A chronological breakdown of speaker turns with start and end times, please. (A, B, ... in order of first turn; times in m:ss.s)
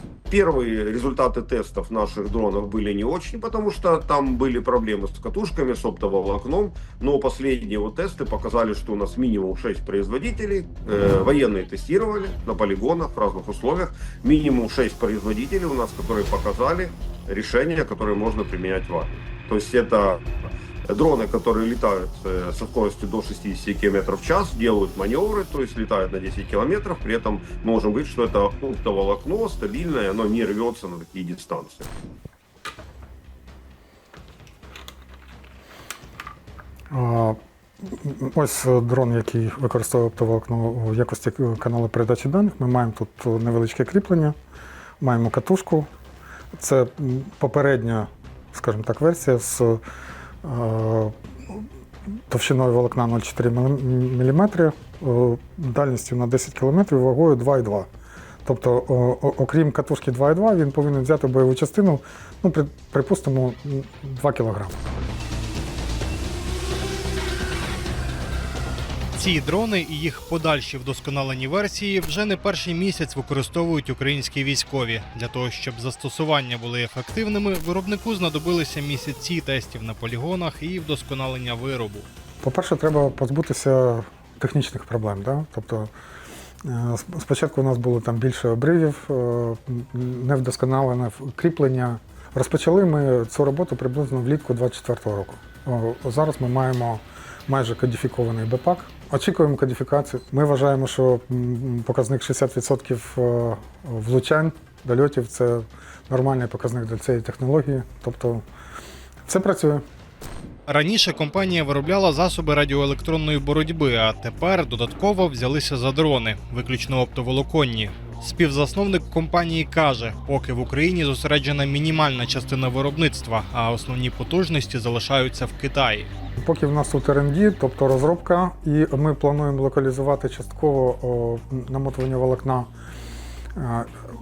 0:00.3-0:20.2 A
0:20.9-0:31.9 A
0:36.9-0:44.4 B
0:45.0-0:45.9 B
0:46.5-0:49.8 B
0:50.4-0:51.6 B
0:52.3-0:57.9 B
0:58.4-1:04.7 B
1:09.1-1:22.1 C
1:22.4-1:25.9 B
1:26.6-1:48.4 B
1:49.3-1:49.8 B
1:50.7-2:06.1 C
2:06.4-2:12.7 B
2:13.6-2:13.9 B